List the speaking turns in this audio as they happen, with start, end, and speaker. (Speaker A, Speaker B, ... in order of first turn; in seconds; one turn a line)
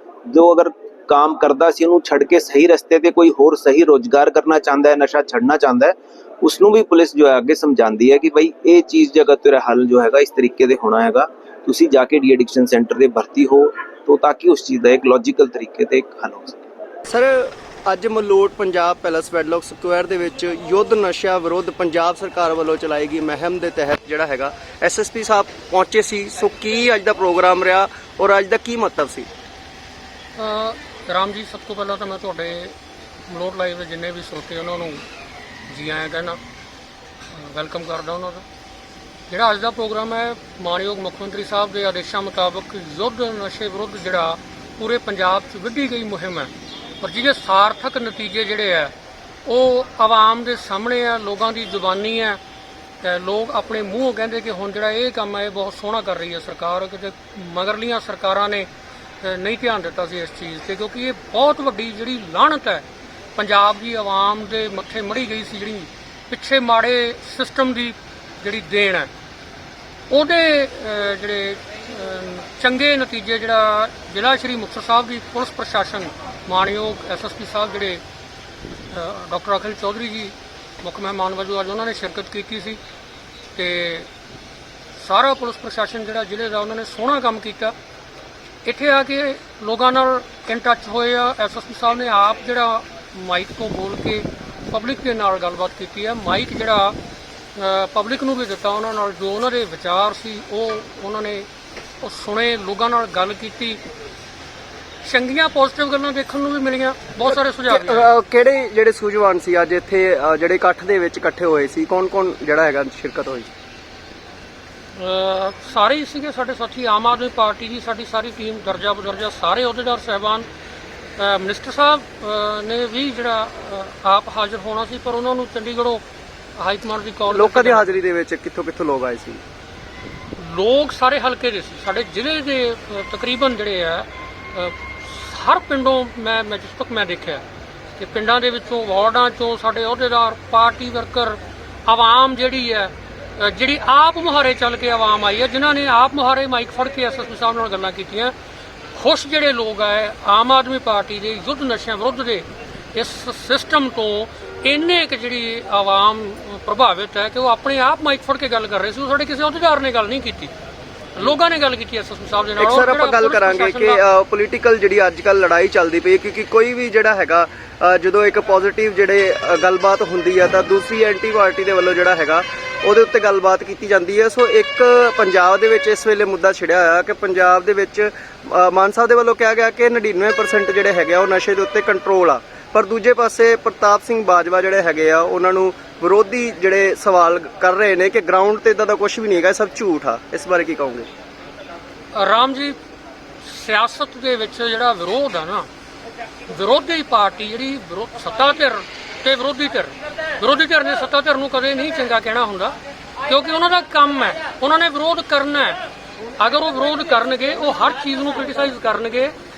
Speaker A: 0.3-16.6
Speaker B: 17.1-29.3
Speaker C: 30.4-32.8
Speaker C: 33.3-35.0
Speaker C: 35.7-36.4
Speaker C: 37.3-38.5
Speaker C: 39.3-48.9
Speaker C: 49.5-52.4
Speaker C: 53.0-58.7
Speaker C: 59.2-69.1
Speaker C: 70.1-78.0
Speaker C: 78.9-82.8
Speaker C: 83.5-84.1
Speaker C: 85.0-87.8
Speaker C: 88.7-97.0
Speaker C: 97.6-101.5
Speaker C: 102.0-103.8
Speaker C: 105.0-108.1
Speaker B: 107.7-113.5
Speaker C: 115.0-120.5
Speaker C: 121.2-126.0
Speaker C: 126.6-128.0
Speaker B: 127.3-129.4
Speaker C: 130.4-137.4
Speaker C: 137.9-148.3
Speaker C: 148.9-160.5
Speaker C: 161.2-164.0
Speaker B: 162.6-191.1
Speaker C: 192.2-192.8
Speaker C: 193.4-195.7
Speaker C: 196.5-205.8
Speaker C: 206.4-209.3